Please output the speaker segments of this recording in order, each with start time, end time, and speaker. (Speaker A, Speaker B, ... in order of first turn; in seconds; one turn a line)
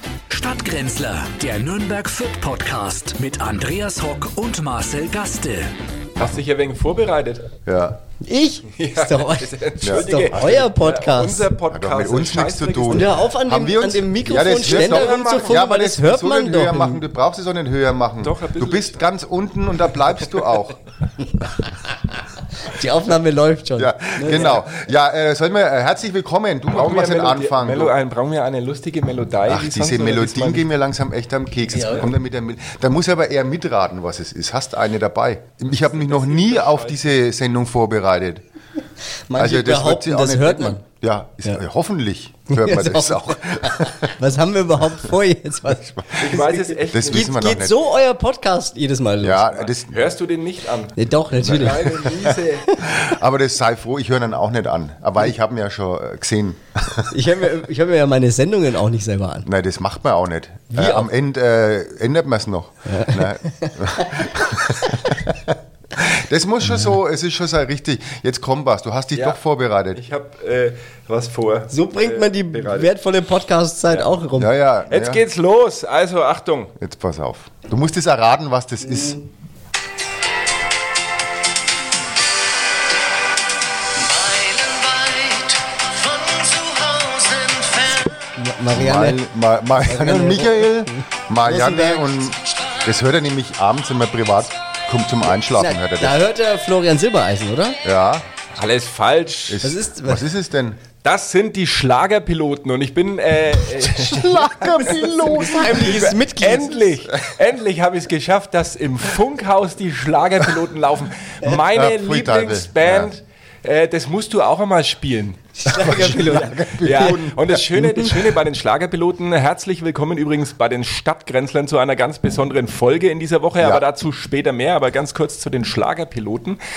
Speaker A: 0.3-5.7
Speaker B: 6.2-7.5
Speaker C: 7.7-8.0
Speaker D: 8.2-11.5
Speaker B: 8.8-13.1
Speaker C: 9.8-10.6
Speaker C: 11.7-20.8
Speaker D: 12.9-17.0
Speaker B: 14.6-15.6
Speaker B: 18.2-19.0
Speaker D: 22.6-24.6
Speaker C: 23.8-27.9
Speaker B: 26.7-30.7
Speaker C: 29.5-38.4
Speaker B: 35.8-37.0
Speaker D: 39.3-40.8
Speaker C: 39.4-44.1
Speaker D: 42.5-46.1
Speaker C: 45.9-47.8
Speaker B: 46.1-47.4
Speaker D: 47.1-49.5
Speaker C: 49.2-50.0
Speaker B: 49.7-52.8
Speaker D: 51.0-52.4
Speaker C: 51.4-57.1
Speaker D: 57.1-59.5
Speaker C: 59.5-70.0
Speaker D: 60.7-61.1
Speaker D: 62.9-64.3
Speaker B: 70.0-72.9
Speaker D: 71.7-74.5
Speaker C: 74.4-75.2
Speaker B: 74.9-76.7
Speaker C: 76.8-79.2
Speaker E: 84.0-88.1
Speaker D: 88.4-89.2
Speaker C: 88.7-96.2
Speaker D: 89.8-92.1
Speaker D: 95.6-97.8
Speaker C: 97.8-98.3
Speaker B: 98.5-99.6
Speaker C: 99.5-100.8
Speaker D: 99.6-100.3
Speaker B: 101.0-105.0
Speaker C: 103.8-106.1
Speaker D: 105.2-106.8
Speaker B: 105.6-115.5
Speaker C: 111.5-113.1
Speaker D: 115.6-117.2
Speaker C: 115.7-117.7
Speaker B: 116.8-126.6
Speaker D: 117.8-118.1